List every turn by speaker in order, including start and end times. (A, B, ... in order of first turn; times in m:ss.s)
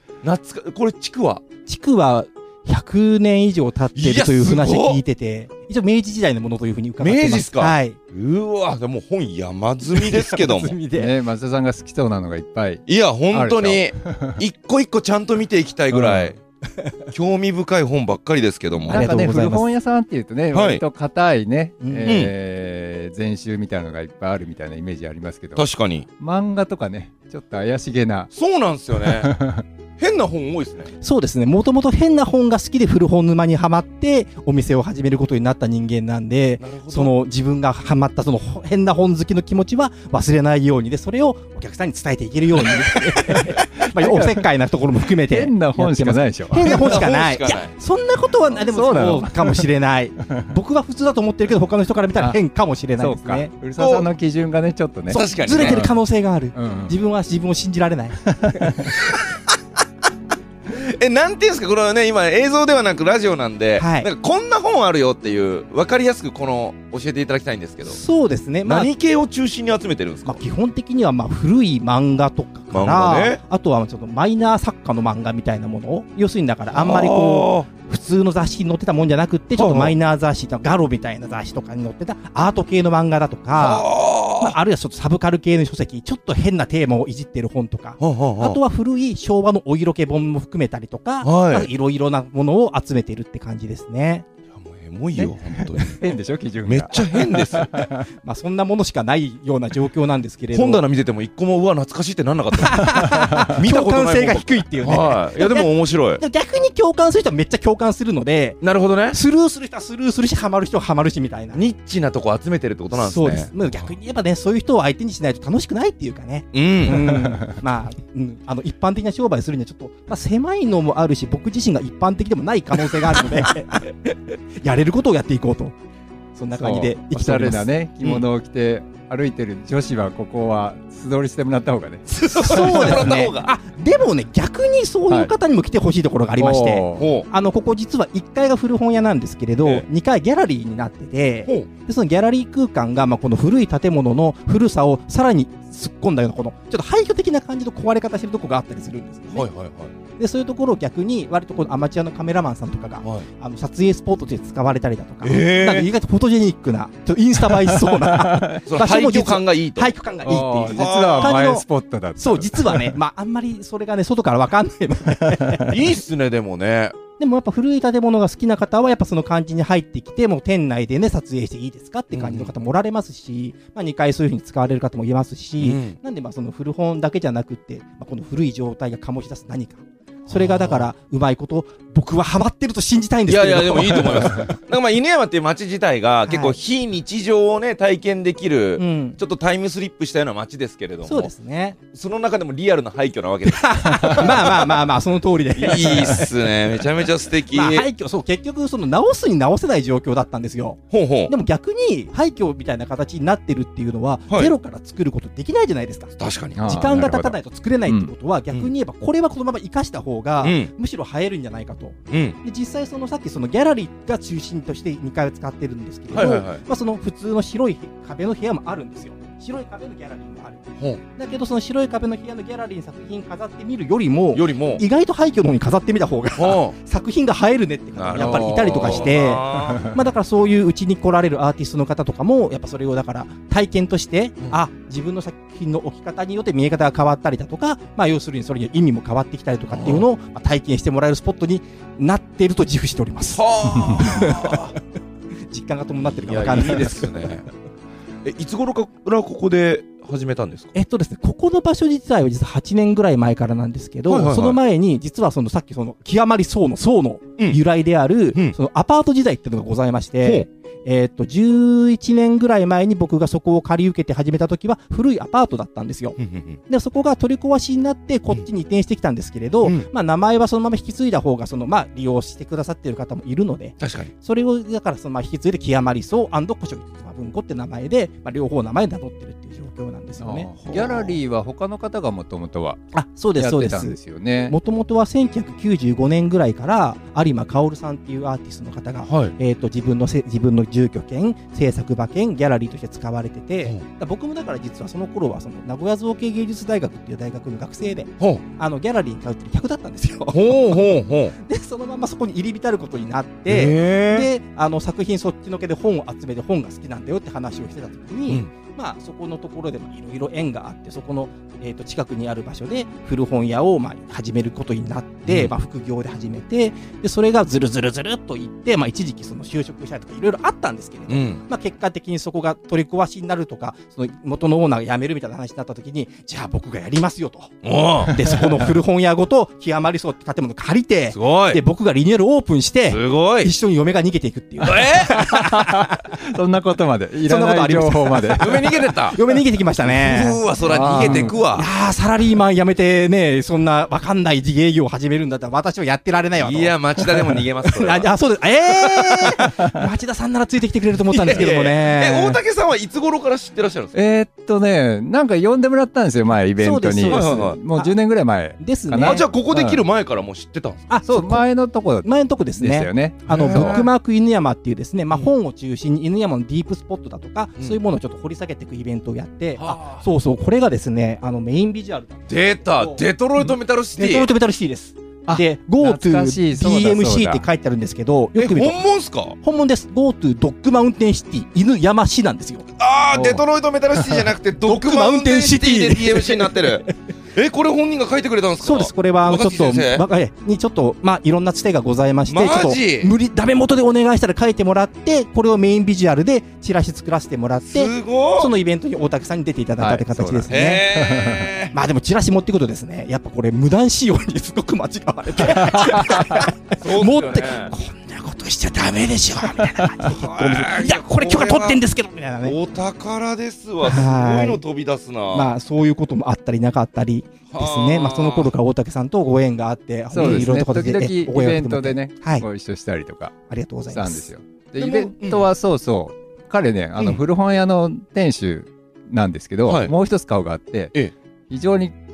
0:00.2-0:01.4 A
0:01.7-0:08.0 B
0:04.0-0:05.0 A
0:07.0-0:10.8 A
0:09.9-0:11.2 B
0:10.9-0:14.4 C
0:12.9-0:16.4 A
0:15.9-0:16.4 C
0:16.8-0:17.1 B
0:17.1-0:19.1 A
0:18.9-0:28.3 C
0:18.9-0:19.7 B
0:20.5-0:20.8 A
0:21.8-0:22.2 B
0:22.1-0:22.3 A
0:25.6-0:26.1 A
0:28.3-0:29.3 A
0:29.2-0:29.6 C
0:30.0-0:30.9 A
0:31.0-0:53.5 B
0:36.6-0:37.1 A
0:43.5-0:44.4 C
0:45.2-0:47.0 C
0:46.6-0:47.7 A
0:48.5-0:49.7 C
0:53.0-0:56.0 C
0:53.8-0:54.1 A
0:55.1-0:58.9 B
0:55.1-0:55.8 A
0:56.6-0:57.0 C
1:00.7-1:08.0 A
1:03.8-1:04.1 B
1:07.8-1:08.9 B
1:08.6-1:10.4 A
1:10.3-1:23.9 B
1:12.7-1:13.4 A
1:16.7-1:17.7 A
1:19.6-1:20.0 A
1:23.5-1:24.6 A
1:24.4-1:34.3 B
1:28.0-1:28.6 A
1:31.2-1:31.7 A
1:34.6-1:36.0 A
1:35.2-1:38.0 C
1:36.6-1:37.7 A
1:38.2-1:40.8 B
1:40.5-1:46.2 A
1:42.6-1:51.6 B
1:48.6-1:49.2 A
1:51.5-1:53.9 A
1:52.9-2:05.8 B
1:56.5-1:57.3 A
2:06.4-2:07.7 B
2:06.5-2:13.2 C
2:12.1-2:13.5 A
2:12.2-2:29.5 B
2:15.1-2:15.3 C
2:16.4-2:17.1 C
2:17.0-2:17.3 A
2:29.3-2:29.9 A
2:30.2-2:45.8 B
2:35.2-2:35.9 A
2:38.0-2:38.6 C
2:38.7-2:40.0 A
2:40.2-2:42.9 C
2:40.7-2:41.4 A
2:45.7-2:47.0 A
2:47.2-3:04.5 B
2:52.1-2:52.5 A
2:55.6-2:56.0 A
3:00.3-3:00.9 A
3:03.3-3:11.3 A
3:06.3-3:06.6 B
3:08.8-3:09.2 B
3:11.0-3:11.8 B
3:11.9-3:14.8 A
3:13.5-3:16.3 B
3:15.6-3:17.9 A
3:17.5-3:26.1 B
3:20.9-3:21.3 A
3:26.2-3:27.4 A
3:26.6-3:27.0 C
3:26.6-4:04.8 B
3:27.9-3:28.1 C
3:30.4-3:30.7 A
3:32.1-3:32.4 A
3:36.1-3:36.6 A
3:44.3-3:44.8 A
3:46.4-3:46.8 A
3:48.0-3:49.8 A
3:48.2-3:50.0 C
3:59.7-4:00.0 A
4:03.4-4:04.7 A
4:05.5-4:07.2 B
4:06.0-4:07.5 A
4:08.2-4:10.7 A
4:10.7-4:26.2 B
4:14.1-4:14.6 A
4:20.2-4:20.5 A
4:26.2-4:26.6 A
4:26.7-4:40.5 B
4:33.8-4:34.1 A
4:40.2-4:42.8 C
4:40.6-4:41.2 A
4:42.9-5:36.1 B
4:43.4-4:44.6 C
4:49.0-4:49.3 A
5:00.3-5:01.4 A
5:03.5-5:04.3 A
5:15.3-5:15.5 A
5:21.1-5:21.4 A
5:27.6-5:28.7 A
5:31.1-5:31.6 A
5:32.9-5:33.5 A
5:34.6-5:35.5 A
5:36.3-5:38.7 C
5:37.2-5:52.4 B
5:38.4-5:39.2 A
5:39.8-5:41.7 A
5:40.6-5:41.4 C
5:46.4-5:48.1 A
5:48.8-5:49.4 A
5:51.1-5:54.0 A
5:53.9-5:59.8 C
5:56.6-5:58.0 B
5:57.1-5:57.6 A
5:58.6-5:59.3 B
5:59.0-6:00.9 A
6:00.9-6:13.1 B
6:01.1-6:03.9 C
6:03.3-6:03.9 A
6:09.6-6:10.0 A
6:12.3-6:14.3 A
6:14.0-6:18.8 B
6:15.3-6:17.5 C
6:18.4-6:19.4 A
6:19.4-6:23.4 B
6:22.8-6:30.0 A
6:24.6-6:26.9 B
6:28.6-6:40.8 B
6:32.3-6:33.1 A
6:37.7-6:38.5 A
6:39.8-6:41.5 C
6:40.5-6:41.7 A
6:41.7-6:52.6 B
6:46.8-6:47.7 A
6:50.1-6:51.8 A
6:52.4-6:55.5 A
6:53.8-6:54.6 B
6:55.3-7:02.5 B
6:57.5-6:58.5 A
7:00.1-7:03.3 C
7:00.2-7:00.4 A
7:03.5-7:04.3 B
7:03.9-7:11.0 C
7:04.8-7:05.5 A
7:09.7-7:09.9 A
7:11.5-7:12.0 C